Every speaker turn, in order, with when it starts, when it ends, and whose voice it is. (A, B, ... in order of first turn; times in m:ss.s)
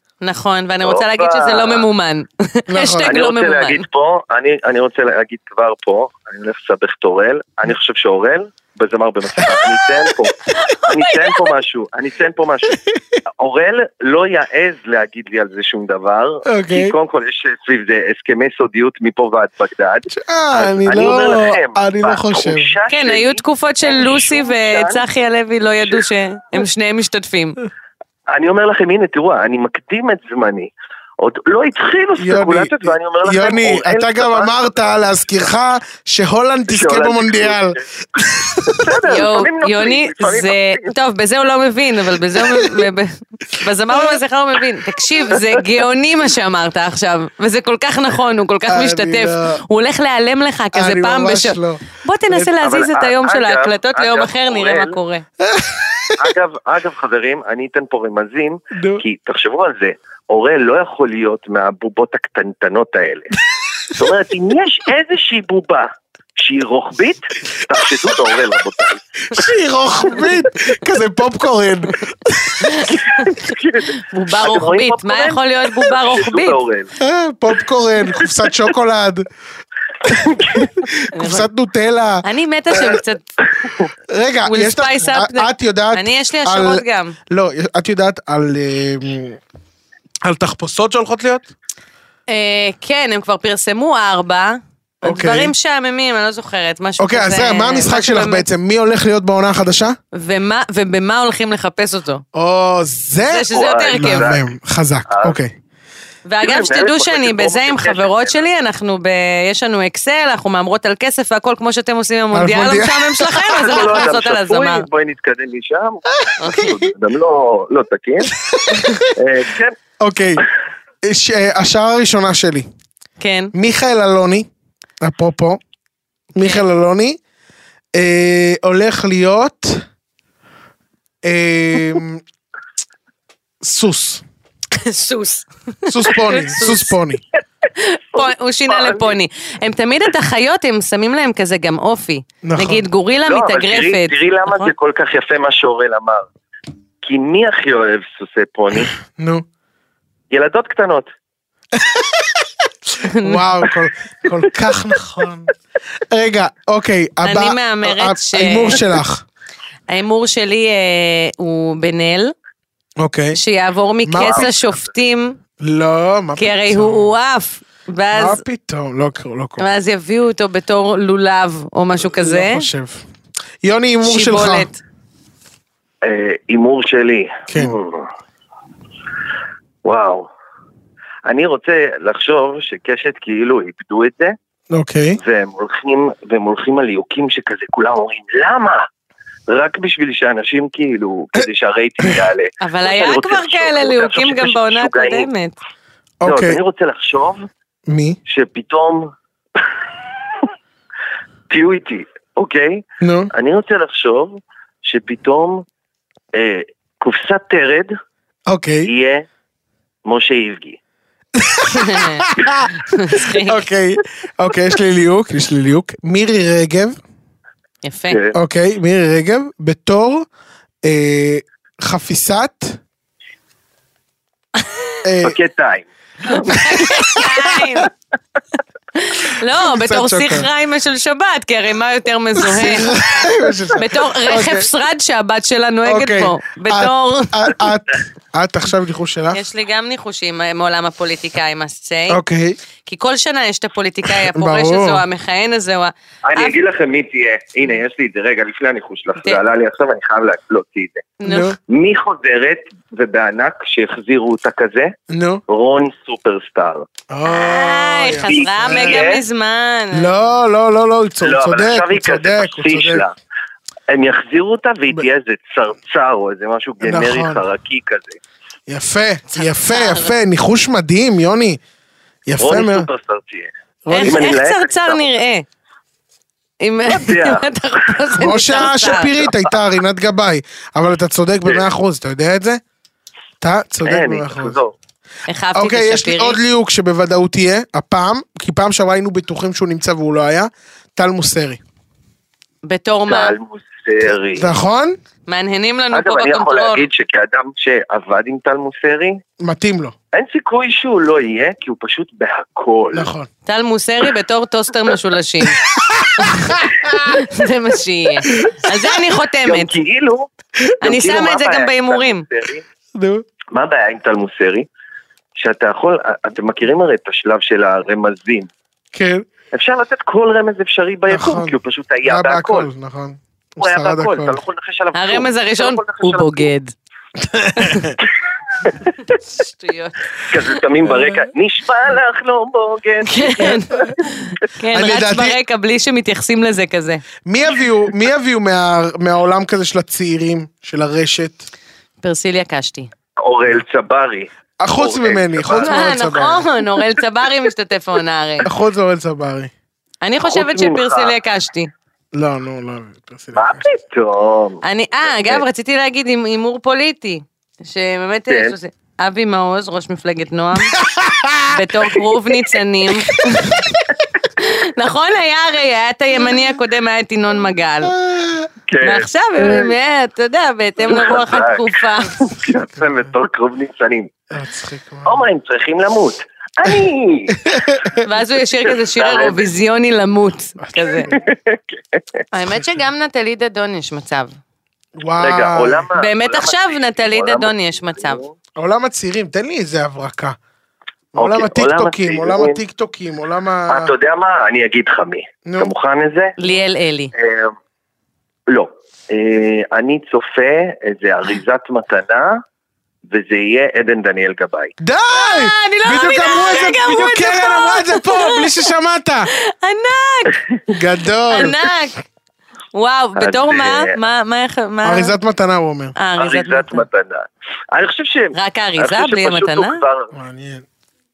0:00.2-0:03.8 A
0:00.8-0:01.8 B
0:02.7-0:03.1 C
0:03.0-0:12.8 B
0:09.4-0:09.7 C
0:10.5-0:11.5 A
0:13.4-0:25.0 B
0:16.4-0:16.9 C
0:20.1-0:22.7 C
0:22.9-0:27.6 A
0:28.3-0:34.8 B
0:32.2-0:38.8 C
0:36.7-0:37.8 B
0:38.6-0:40.9 B
0:39.1-0:55.2 A
0:48.7-0:49.6 C
0:50.7-0:52.5 C
0:52.6-0:55.0 B
0:55.4-0:56.3 C
0:56.2-1:03.3 B
0:58.7-0:59.0 C
1:03.9-1:09.4 B
1:09.3-1:12.8 C
1:12.6-1:13.5 A
1:12.9-1:16.9 B
1:14.1-1:16.6 A
1:17.0-1:19.2 C
1:20.0-1:22.2 C
1:20.1-1:20.8 B
1:21.1-1:21.5 A
1:22.2-1:23.3 A
1:23.6-1:23.9 B
1:24.1-1:29.4 C
1:24.4-1:27.2 A
1:30.2-1:31.5 C
1:32.3-1:38.4 A
1:35.0-1:35.5 C
1:37.0-1:40.0 C
1:40.1-1:42.2 A
1:42.3-1:45.5 C
1:43.2-1:44.4 A
1:43.5-1:44.4 B
1:45.1-1:45.4 B
1:46.2-1:54.8 A
1:46.4-1:48.4 B
1:52.3-1:54.0 C
1:53.6-1:58.3 B
1:56.2-1:56.9 C
1:56.4-1:56.8 A
1:58.4-1:59.1 C
1:59.1-1:59.7 B
2:00.0-2:00.4 C
2:01.0-2:02.7 C
2:03.2-2:03.5 A
2:03.5-2:04.5 C
2:05.0-2:05.6 C
2:06.3-2:07.2 C
2:07.9-2:09.8 C
2:11.2-2:12.2 C
2:13.6-2:14.2 C
2:14.7-2:16.9 A
2:15.9-2:17.2 C
2:17.8-2:24.7 A
2:18.1-2:19.2 B
2:22.4-2:22.8 C
2:23.2-2:26.2 B
2:27.0-2:28.9 B
2:29.2-2:29.4 C
2:30.3-2:31.1 B
2:31.7-2:35.5 C
2:33.0-2:33.4 A
2:36.1-2:39.2 C
2:37.2-2:38.8 A
2:39.9-2:42.3 A
2:43.0-2:43.4 C
2:43.3-2:45.4 A
2:44.0-2:44.5 C
2:44.2-2:44.5 B
2:45.6-2:47.1 C
2:46.4-2:48.4 A
2:48.1-2:49.6 C
2:49.6-2:52.7 A
2:52.0-2:53.0 C
2:53.6-2:54.7 C
2:54.0-2:54.8 A
2:56.0-2:58.1 B
2:57.5-2:57.8 C
2:59.8-3:00.3 B
3:01.2-3:04.3 B
3:04.7-3:05.2 C
3:05.2-3:08.9 B
3:09.5-3:15.3 B
3:12.6-3:15.6 A
3:16.2-3:16.6 C
3:16.2-3:17.4 B
3:17.9-3:18.2 C
3:18.3-3:19.1 B
3:21.5-3:25.6 B
3:23.0-3:23.3 C
3:26.3-3:27.9 B
3:28.5-3:28.9 C
3:28.8-3:29.2 B
3:30.0-3:30.8 B
3:31.4-3:37.0 C
3:31.7-3:32.2 A
3:32.8-3:33.6 A
3:37.8-3:38.2 A
3:38.1-3:38.4 B
3:38.3-3:40.3 C
3:40.8-3:42.8 C
3:45.0-3:45.4 C
3:45.2-3:46.6 B
3:46.3-3:47.9 A
3:47.2-3:47.8 C
3:49.0-3:53.0 A
3:49.6-3:50.5 C
3:52.4-3:54.7 C
3:53.7-3:57.5 A
3:55.8-3:59.4 C
3:59.3-4:02.2 A
4:02.1-4:02.6 C
4:02.8-4:06.6 A
4:04.1-4:05.0 C
4:06.3-4:11.1 B
4:11.2-4:11.5 A
4:11.2-4:11.6 C
4:11.7-4:14.9 B
4:15.1-4:15.4 C
4:15.5-4:16.8 B
4:17.1-4:19.1 C
4:17.2-4:20.1 A
4:18.3-4:19.2 B
4:19.9-4:23.0 C
4:21.2-4:23.1 B
4:23.9-4:28.2 B
4:26.8-4:27.4 C
4:28.7-4:31.6 C
4:29.3-4:30.1 A
4:32.2-4:32.9 C
4:32.4-4:33.5 B
4:33.8-4:34.3 C
4:33.9-4:35.4 A
4:34.0-4:35.0 B
4:36.6-4:39.2 A
4:36.9-4:37.5 B
4:38.2-4:42.6 C
4:38.6-4:38.8 B
4:43.4-4:44.6 C
4:43.8-4:44.7 B
4:45.3-4:46.4 A
4:45.5-4:51.6 C
4:52.6-4:53.4 A
4:53.1-4:54.5 B
4:54.3-4:55.0 C
4:55.3-4:56.8 A
4:55.9-4:59.2 B
4:59.4-4:59.9 C
5:00.1-5:03.1 B
5:02.9-5:03.3 C
5:03.4-5:05.6 A
5:05.8-5:07.2 C
5:06.2-5:06.6 A
5:07.1-5:09.8 A
5:09.4-5:10.3 B
5:10.8-5:12.2 A
5:10.8-5:12.6 B
5:12.9-5:13.2 C
5:13.5-5:14.6 B
5:15.4-5:18.5 B
5:18.9-5:19.2 C
5:19.5-5:22.7 B
5:21.1-5:24.4 C
5:23.6-5:26.5 B
5:24.9-5:26.7 A
5:27.2-5:27.9 C
5:27.6-5:27.9 A
5:28.6-5:28.9 B
5:29.3-5:30.6 A
5:30.3-5:34.1 B
5:33.1-5:37.0 A
5:34.7-5:35.4 C
5:37.2-5:41.5 C
5:42.0-5:42.9 A
5:43.2-5:46.0 B
5:44.6-5:46.4 C
5:45.6-5:48.5 A
5:48.4-5:49.5 C
5:50.0-5:51.7 A
5:50.2-5:51.1 B
5:52.1-5:53.6 C
5:53.3-5:55.4 B
5:54.6-6:00.8 A
5:58.3-5:58.5 B
6:00.7-6:01.6 C
6:01.5-6:03.7 A
6:03.1-6:03.7 C
6:04.4-6:07.9 A
6:07.8-6:08.5 C
6:08.7-6:09.7 B
6:08.8-6:12.3 A
6:10.8-6:14.1 B
6:14.3-6:15.3 C
6:15.0-6:17.9 B
6:17.4-6:18.0 C
6:18.0-6:21.1 A
6:18.6-6:19.5 B
6:20.6-6:21.2 C
6:21.1-6:22.0 B
6:22.3-6:24.3 A
6:25.0-6:25.9 C
6:25.2-6:28.3 B
6:26.0-6:28.2 A
6:28.6-6:30.4 C
6:31.1-6:33.9 C
6:31.2-6:32.6 B
6:33.7-6:36.4 B
6:35.4-6:35.7 C
6:36.4-6:37.1 A
6:37.1-6:37.5 B
6:38.5-6:42.4 B
6:43.1-6:44.7 B
6:44.8-6:49.3 C
6:45.1-6:48.5 A
6:49.3-6:50.4 A
6:50.7-6:51.6 C
6:51.3-6:52.0 A
6:52.7-6:55.1 A
6:53.2-6:54.0 B
6:54.8-6:55.9 C
6:56.0-6:56.8 A
6:56.2-7:00.1 B
6:58.3-6:59.8 A
7:00.1-7:00.6 C